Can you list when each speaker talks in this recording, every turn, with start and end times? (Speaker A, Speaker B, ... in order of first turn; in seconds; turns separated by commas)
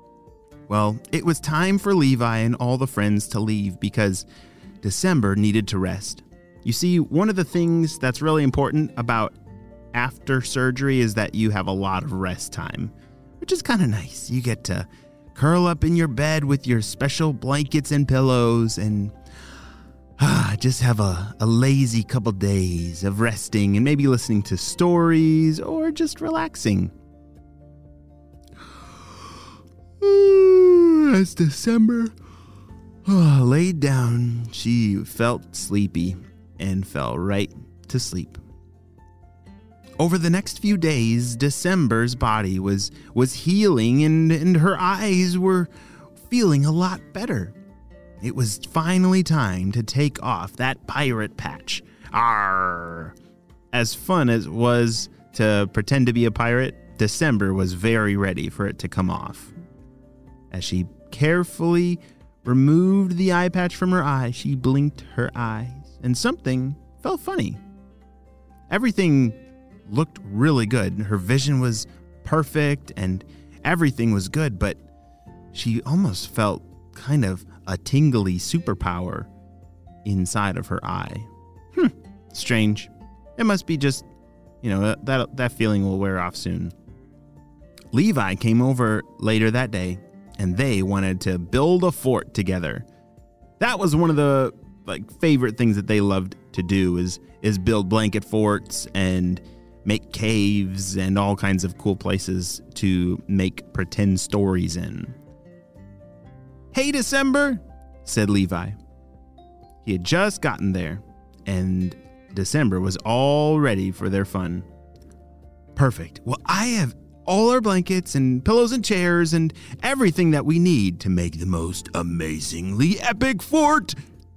Speaker A: 0.7-4.3, Speaker A: 4.8-9.4, Speaker A: 9.9-19.1, Speaker A: 20.2-26.9, Speaker A: 30.0-32.1, Speaker A: 33.1-38.4, Speaker A: 40.0-45.7, Speaker A: 46.2-47.6, Speaker A: 48.2-53.1, Speaker A: 53.7-59.5, Speaker A: 60.5-67.6, Speaker A: 68.7-74.8, Speaker A: 75.5-79.3, Speaker A: 80.0-84.1, Speaker A: 84.6-86.7, Speaker A: 87.9-92.9, Speaker A: 93.6-105.2, Speaker A: 106.7-108.8, Speaker A: 109.8-114.7, Speaker A: 115.8-124.0